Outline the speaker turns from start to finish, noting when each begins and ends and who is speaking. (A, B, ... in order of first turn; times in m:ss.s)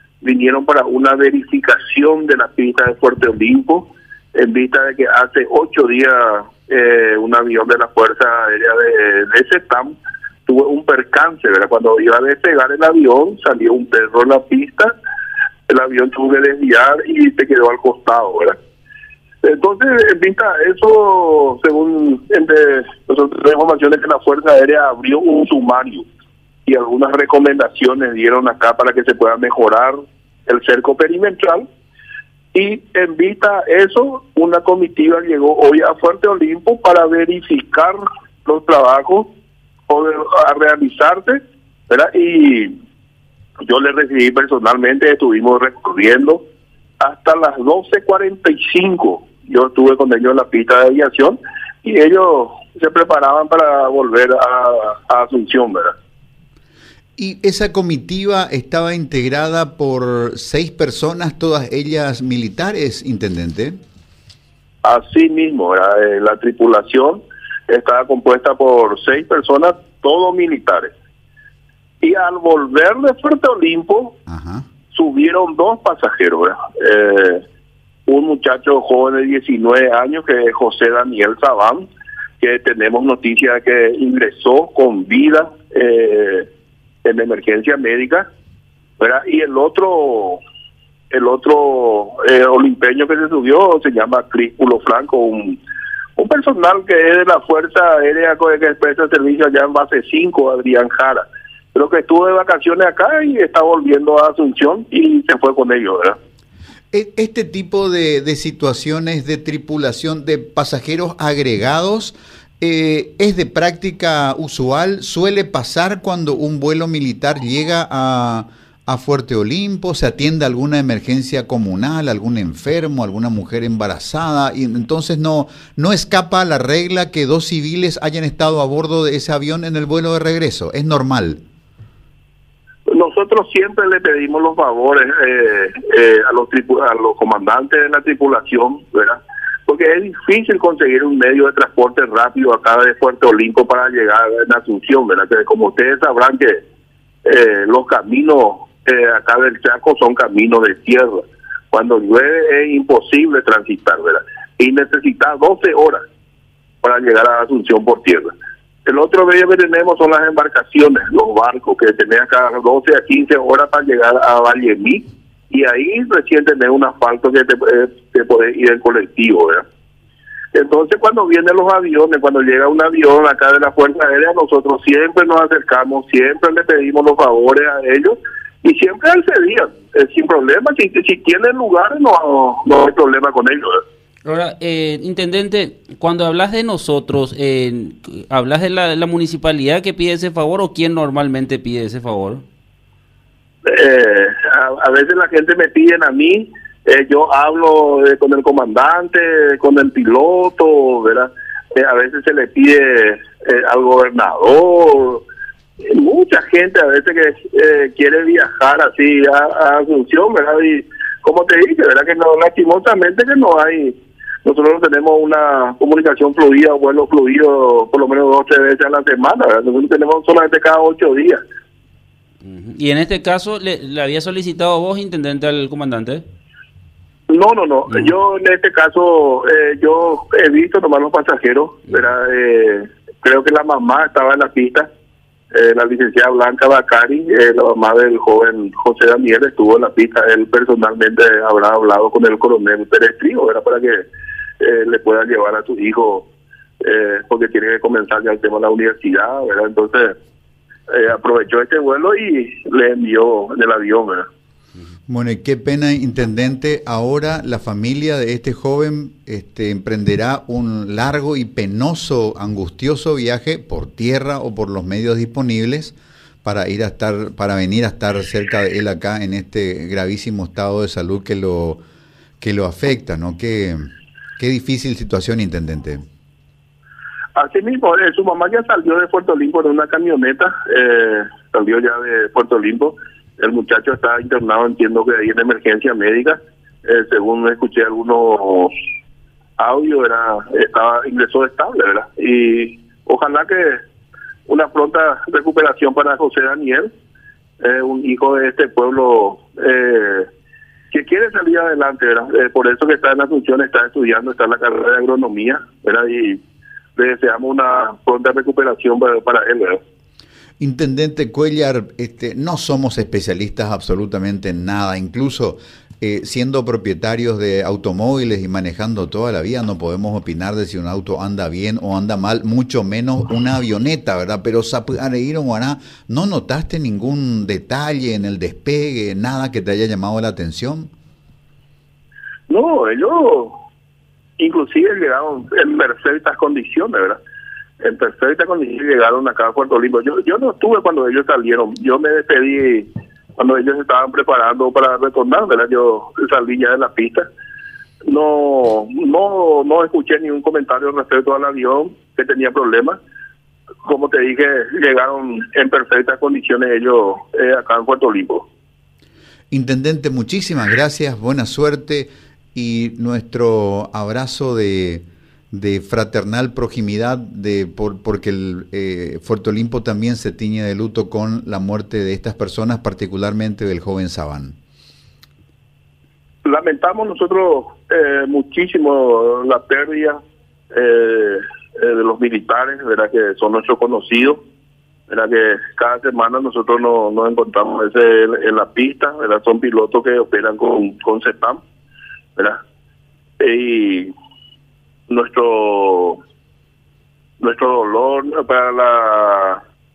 0:00.2-0:10.0 A
0:10.5-0:15.0 A
0:15.7-0:18.6 A
0:19.4-0:26.1 A
0:26.7-0:31.7 A
0:32.5-0:39.3 A
0:39.9-0:42.7 A
0:43.6-0:46.4 A
0:47.0-0:56.0 A
0:57.2-1:03.8 B
1:04.8-1:10.9 A
1:12.0-1:14.2 A
1:14.3-1:14.6 B
1:14.9-1:17.4 A
1:18.1-1:21.9 A
1:22.4-1:26.5 A
1:27.0-1:28.3 A
1:29.0-1:30.4 A
1:31.1-1:35.6 A
1:36.2-1:46.2 A
1:46.9-2:11.4 B
2:12.9-2:26.6 A
2:27.2-2:36.0 A
2:36.8-2:38.3 A
2:38.8-2:49.6 A
2:50.5-3:03.8 A
3:04.2-3:12.4 C
3:13.7-3:25.2 A
3:25.8-3:41.4 A
3:42.4-3:46.2 C
3:47.3-3:54.9 A
3:55.5-4:04.1 A
4:04.6-4:06.3 A
4:06.8-4:10.2 A
4:10.9-4:14.3 A
4:15.1-4:31.8 B
4:32.4-4:36.0 B
4:37.4-4:48.7 A
4:49.6-4:53.8 A
4:54.5-4:56.9 A
4:57.6-5:00.3 A
5:00.9-5:06.4 A
5:07.0-5:09.8 A
5:10.6-5:30.9 B
5:32.5-5:33.6 A
5:34.4-5:37.2 A
5:37.8-5:47.3 A
5:48.1-5:53.0 A
5:53.8-5:58.5 A
5:59.5-6:14.6 B
6:16.4-6:20.2 A
6:20.7-6:24.4 A
6:25.1-6:31.6 A
6:33.4-6:34.1 A
6:35.1-6:36.2 A
6:37.4-6:39.6 A